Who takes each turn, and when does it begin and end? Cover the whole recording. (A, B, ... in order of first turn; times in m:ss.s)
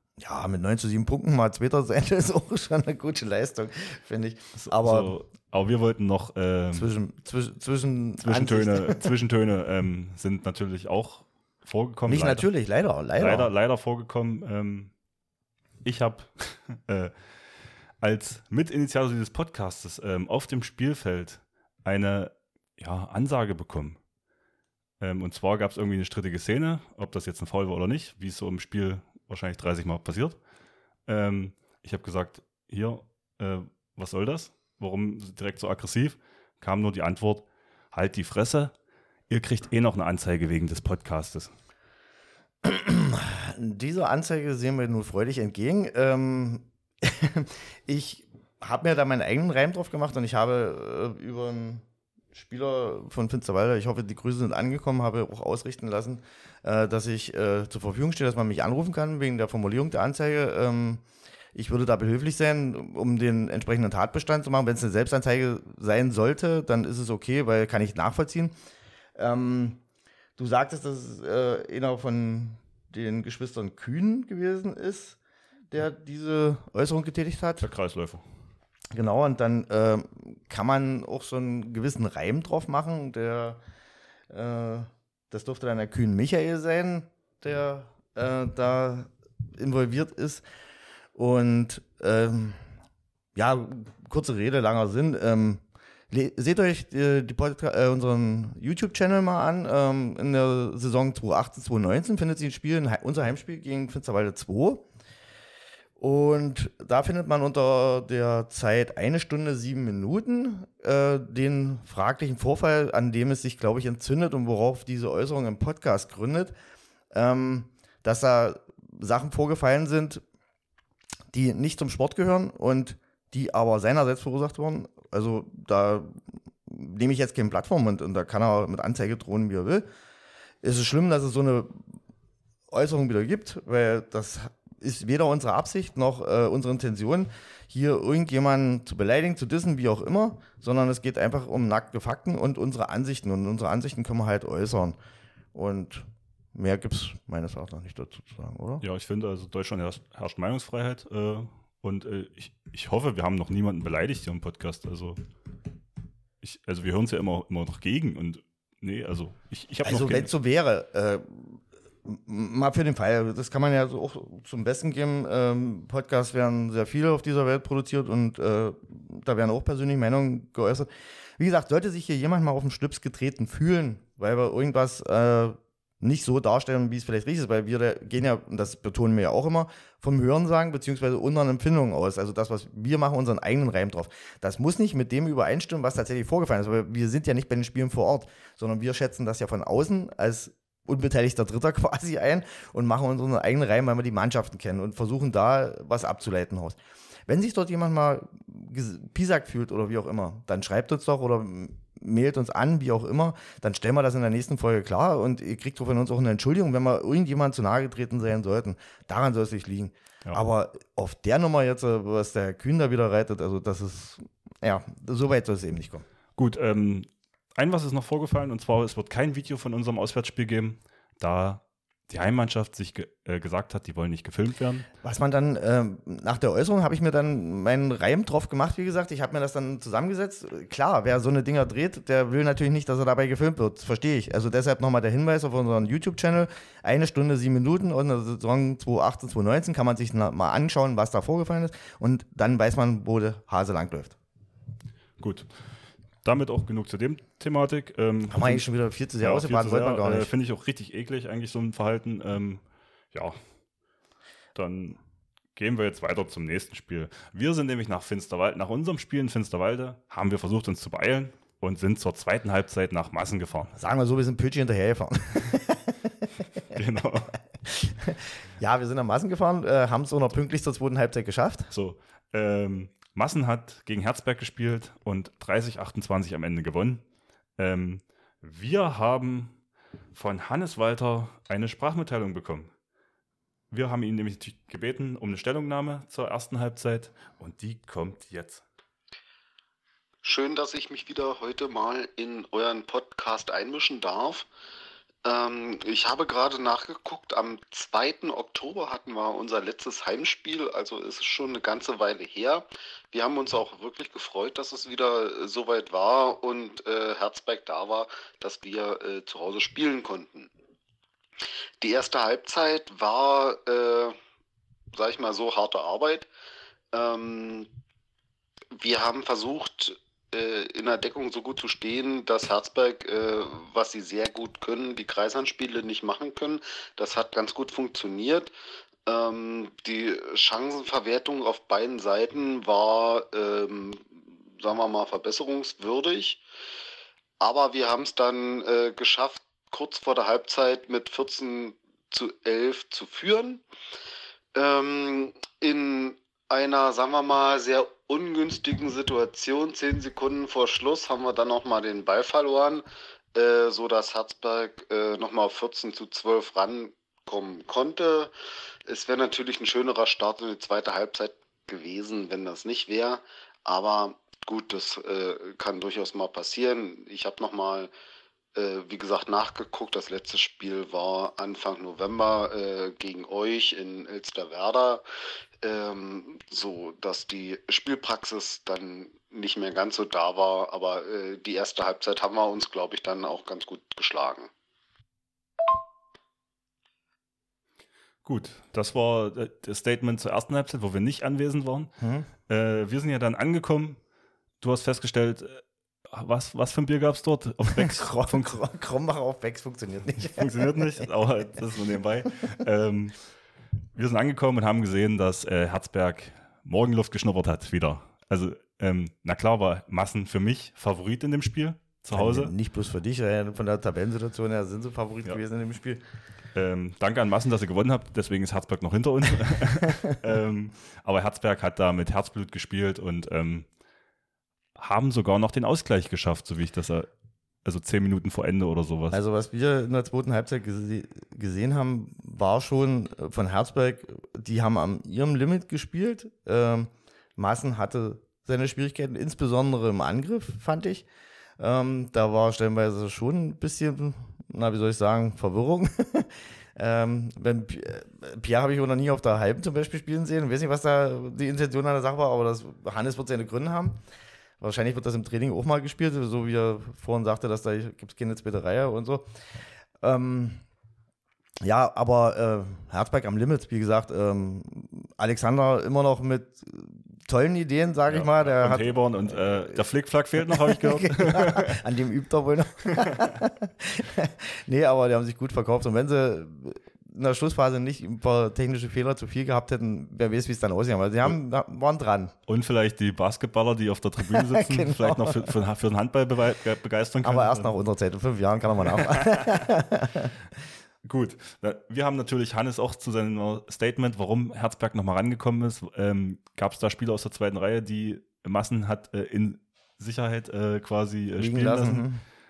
0:00.2-0:05.2 A
0:04.5-0:06.9 B
0:06.7-0:09.1 A
0:08.2-0:12.5 B
0:12.1-0:13.5 A
0:13.2-0:14.9 B
0:15.8-0:17.1 B
0:18.0-0:24.0 B
0:25.0-0:30.4 B
0:31.0-0:38.7 B
0:39.3-0:41.5 B
0:42.6-1:01.0 A
1:01.5-1:08.5 A
1:09.2-1:09.8 A
1:10.4-1:15.2 A
1:15.7-1:17.7 A
1:17.6-1:18.2 B
1:18.9-1:23.6 A
1:24.3-1:30.4 A
1:31.2-1:32.6 A
1:33.3-1:44.8 A
1:46.0-1:56.5 A
1:57.1-2:00.2 A
2:01.3-2:09.8 A
2:10.6-2:11.8 A
2:12.7-2:25.0 A
2:25.5-2:28.8 A
2:28.8-2:35.2 B
2:36.4-2:40.3 B
2:39.8-3:36.0 A
3:36.4-3:44.9 B
3:45.0-4:04.2 A
4:05.2-4:05.5 B
4:06.2-4:08.7 B
4:08.3-4:10.3 A
4:09.2-4:13.4 B
4:14.5-4:15.0 B
4:15.5-4:23.7 B
4:23.8-4:26.6 A
4:26.7-4:27.3 B
4:27.6-4:31.7 A
4:31.7-4:37.0 B
4:37.6-4:39.6 B
4:40.1-4:42.7 B
4:43.7-4:48.6 B
4:50.2-4:54.5 C
4:55.2-5:10.5 C
5:11.8-5:14.2 C
5:14.9-5:16.3 C
5:16.9-5:17.7 C
5:18.7-5:28.5 C
5:29.1-5:36.4 C
5:37.4-5:43.6 C
5:44.5-5:58.3 C
5:58.8-6:07.9 C
6:08.5-6:15.0 C
6:15.6-6:24.5 C
6:28.2-6:32.0 B
6:32.0-6:32.3 A
6:32.5-6:34.0 B
6:34.6-6:38.5 B
6:37.7-6:41.1 A
6:40.2-6:43.2 B
6:43.9-6:52.5 B
6:52.1-6:56.0 A
6:56.5-7:03.7 B
7:04.8-7:07.1 B
7:07.6-7:09.2 B
7:09.1-7:21.0 A
7:21.6-7:34.0 A
7:34.6-7:39.3 A
7:40.0-7:40.6 A
7:41.6-7:49.8 A
7:48.1-7:51.8 B
7:50.4-8:02.3 A
7:53.0-7:53.3 B
8:02.5-8:07.7 B
8:04.2-8:05.6 A
8:07.2-8:10.3 A
8:08.9-8:09.5 B
8:11.0-8:22.0 B
8:21.4-8:22.2 A